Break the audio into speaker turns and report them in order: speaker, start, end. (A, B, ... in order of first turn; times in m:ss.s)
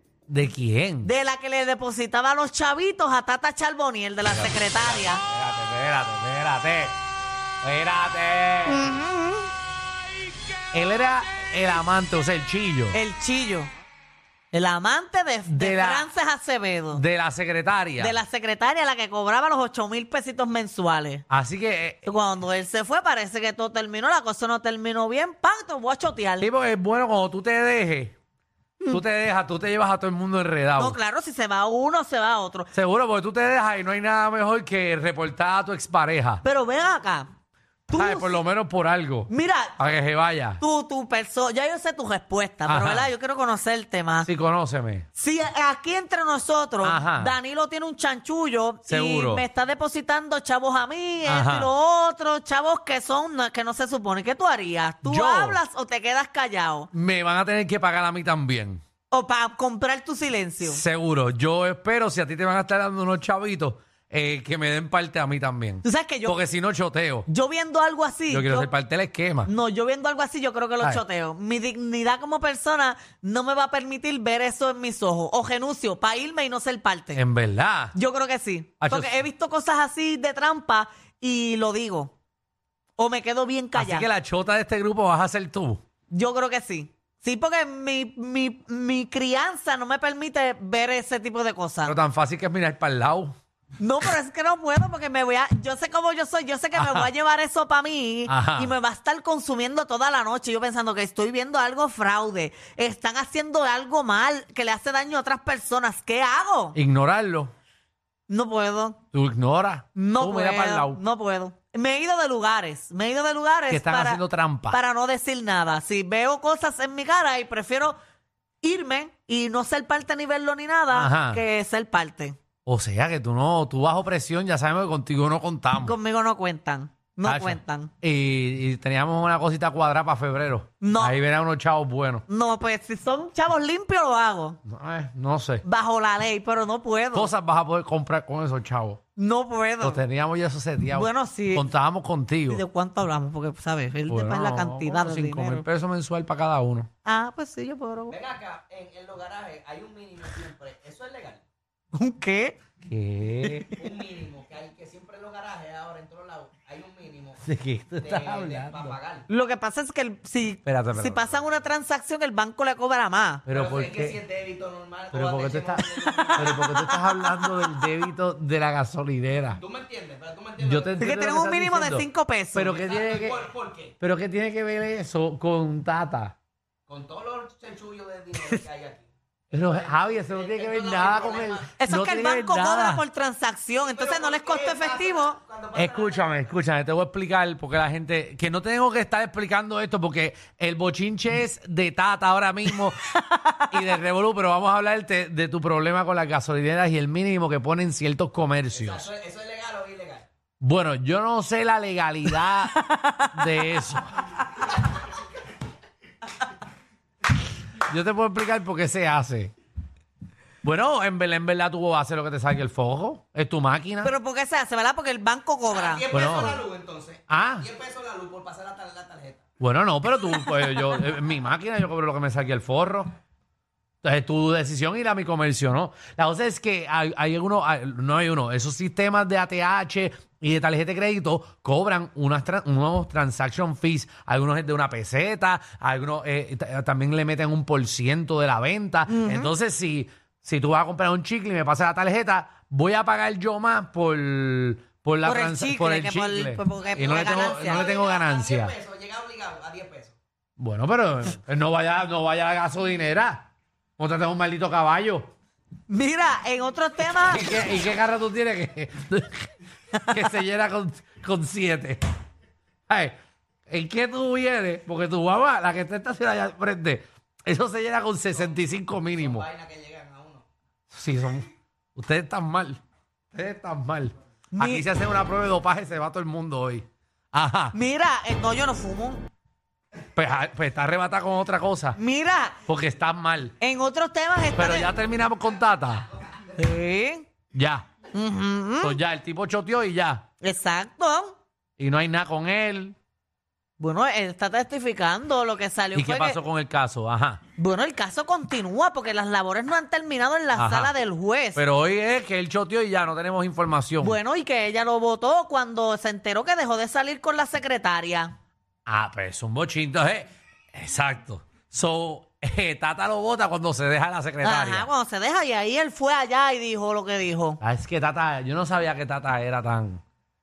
0:00.3-0:01.1 A
0:01.0-0:05.2 B
0:04.2-0:07.0 A
0:07.6-0:08.8 A
0:08.6-0:09.5 B
0:10.7-0:13.0 A
0:12.9-0:13.7 B
0:14.5-0:17.0 B
0:15.5-0:16.1 A
0:16.9-0:18.2 A
0:18.0-0:21.2 B
0:21.3-0:22.0 A
0:22.0-0:26.5 B
0:26.4-0:28.1 A
0:28.9-0:31.0 A
0:30.8-0:32.7 B
0:32.7-0:36.4 A
0:36.4-0:37.3 B
0:37.9-0:38.4 B
0:37.9-0:40.6 A
0:39.3-0:39.7 B
0:40.6-0:44.3 B
0:42.6-0:43.1 A
0:44.2-0:45.0 A
0:45.1-0:56.9 B
0:46.8-0:47.4 A
0:48.8-0:49.4 A
0:51.2-0:51.7 A
0:55.0-0:55.6 A
0:56.9-0:58.8 A
0:59.1-1:00.8 B
1:00.6-1:07.3 A
1:05.8-1:06.4 B
1:07.3-1:08.7 B
1:08.3-1:09.5 A
1:09.4-1:17.2 B
1:17.1-1:17.9 A
1:17.9-1:22.1 B
1:18.8-1:19.2 A
1:23.0-1:24.1 B
1:23.7-1:25.8 A
1:26.1-1:32.0 B
1:31.8-1:33.4 A
1:33.8-1:46.8 B
1:36.7-1:37.1 A
1:38.3-1:38.7 A
1:46.7-1:47.5 A
1:48.3-1:49.0 B
1:49.1-1:51.0 A
1:50.0-1:58.0 B
1:53.7-1:54.8 A
1:58.6-2:02.4 B
2:00.9-2:01.4 A
2:02.6-2:05.9 A
2:05.8-2:07.9 B
2:07.2-2:12.2 A
2:10.8-2:11.2 B
2:12.3-2:14.6 B
2:14.7-2:15.6 A
2:15.6-2:17.3 B
2:17.1-2:19.0 A
2:19.2-2:20.0 B
2:19.8-2:22.6 A
2:20.9-2:21.6 B
2:22.5-2:25.6 B
2:24.1-2:26.9 A
2:27.0-2:28.2 B
2:28.1-2:31.4 C
2:31.9-2:32.6 B
2:32.8-2:33.7 A
2:33.4-2:33.7 B
2:33.7-2:39.3 C
2:37.4-2:39.0 A
2:39.3-2:43.4 B
2:40.6-2:41.4 A
2:43.4-2:44.2 A
2:43.5-2:46.8 C
2:45.1-2:49.6 A
2:46.3-2:47.9 B
2:49.6-2:51.1 C
2:50.6-2:53.4 A
2:51.0-2:52.8 B
2:52.7-2:53.9 C
2:54.0-2:56.3 A
2:56.9-3:01.7 C
2:59.5-3:03.0 A
3:01.8-3:05.4 B
3:03.8-3:06.3 C
3:05.7-3:13.0 A
3:12.7-3:13.8 B
3:13.7-3:19.1 A
3:18.7-3:20.2 C
3:20.6-3:24.4 A
3:22.4-3:23.7 B
3:27.8-3:29.5 A
3:30.6-3:34.1 A
3:34.0-3:36.4 B
3:35.7-3:39.4 C
3:36.1-3:36.6 A
3:37.3-3:37.7 A
3:39.6-3:43.1 A
3:44.0-4:08.7 A
3:59.1-3:59.5 B
4:05.2-4:07.9 B
4:06.9-4:10.2 C
4:10.6-4:15.3 A
4:15.9-4:17.6 B
4:17.2-4:19.5 A
4:19.9-4:20.2 B
4:20.0-4:22.0 A
4:22.9-4:23.1 A
4:23.7-4:29.4 A
4:29.1-4:30.4 C
4:30.9-4:32.8 A
4:33.3-4:37.7 A
4:34.5-4:34.9 B
4:37.7-4:39.2 B
4:40.1-4:42.0 A
4:41.9-4:42.6 B
4:42.6-4:43.6 A
4:43.6-4:44.9 B
4:44.5-4:46.0 A
4:46.5-4:47.3 B
4:47.5-4:47.9 A
4:48.1-4:49.0 B
4:48.8-4:50.2 A
4:50.4-4:51.3 B
4:51.8-4:53.0 A
4:53.8-4:56.4 B
4:55.9-4:57.4 A
4:57.6-5:01.6 B
5:00.6-5:00.9 A
5:01.6-5:04.2 A
5:04.0-5:08.3 B
5:08.8-5:14.9 A
5:14.4-5:17.6 B
5:17.6-5:20.0 A